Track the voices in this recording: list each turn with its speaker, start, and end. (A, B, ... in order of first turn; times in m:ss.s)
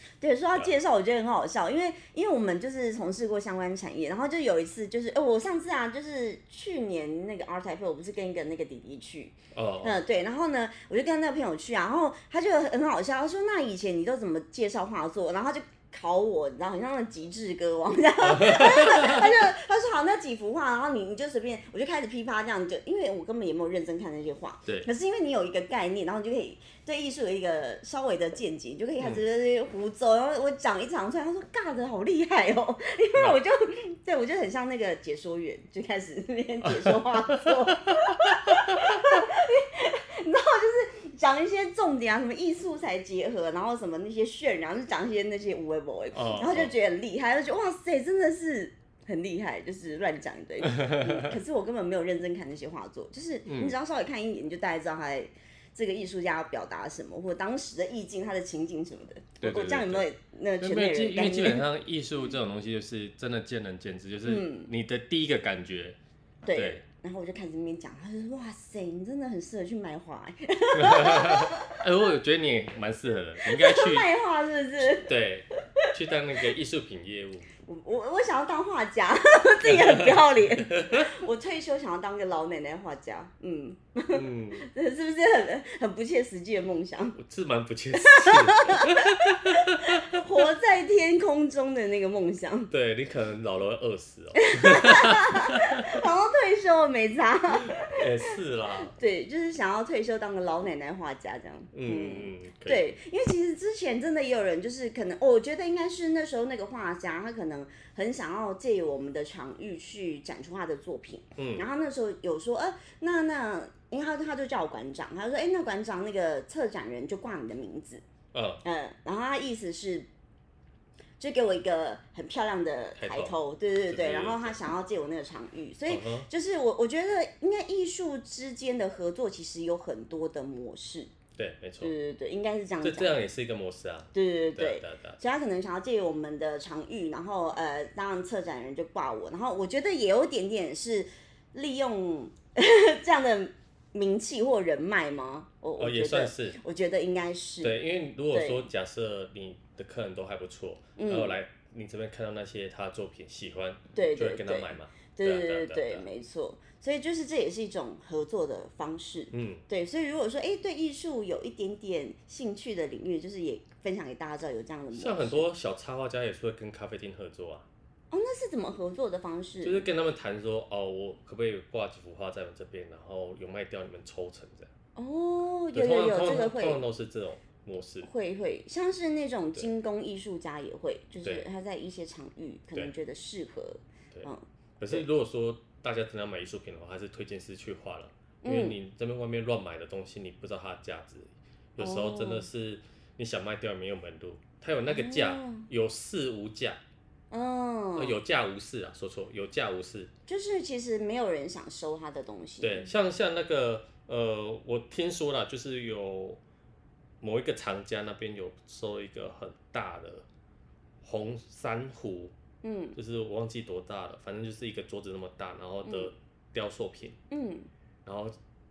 0:00.2-1:01.7 A
0:09.5-0:10.0 B
0:18.2-0:19.3 B
0:36.7-0:39.2 B
0:46.1-0:46.7 B
0:50.6-0:51.4 B
0:53.4-0:53.8 B
0:59.4-1:00.1 B
1:00.6-1:06.8 B
1:04.2-1:04.7 A
1:06.4-1:11.8 A
1:10.7-1:14.1 B
1:13.4-1:15.1 A
1:14.8-1:17.5 B
1:17.6-1:27.2 A
1:19.6-1:21.1 B
1:24.1-1:24.7 B
1:27.2-1:30.2 B
1:28.0-1:32.7 A
1:32.7-1:36.0 B
1:34.3-1:58.0 A
1:37.7-1:38.9 B
1:41.7-1:42.9 B
1:51.4-1:51.7 B
1:58.3-1:58.6 B
1:58.6-2:00.1 A
2:01.2-2:11.1 A
2:03.0-2:03.4 B
2:03.9-2:04.6 B
2:05.9-2:06.3 B
2:11.4-2:11.9 B
2:11.8-2:13.2 A
2:12.8-2:15.2 B
2:14.1-2:27.8 A
2:25.8-2:26.6 B
2:27.6-2:36.0 B
2:28.3-2:28.6 A
2:31.0-2:31.4 A
2:33.9-2:45.4 A
2:39.3-2:39.6 B
2:44.9-2:47.7 B
2:48.1-2:49.8 A
2:49.6-2:54.7 B
2:55.0-2:56.8 A
2:55.7-2:58.1 B
2:58.0-3:05.0 A
3:04.8-3:16.8 B
3:08.4-3:08.8 A
3:11.8-3:12.4 A
3:14.9-3:15.7 A
3:17.3-3:18.2 A
3:18.0-3:20.1 B
3:20.3-3:22.9 A
3:22.6-3:26.4 B
3:27.2-3:30.2 B
3:31.0-3:32.3 B
3:32.6-3:33.0 A
3:32.9-3:37.2 B
3:35.8-3:36.1 A
3:37.3-3:37.7 A
3:38.0-3:38.3 B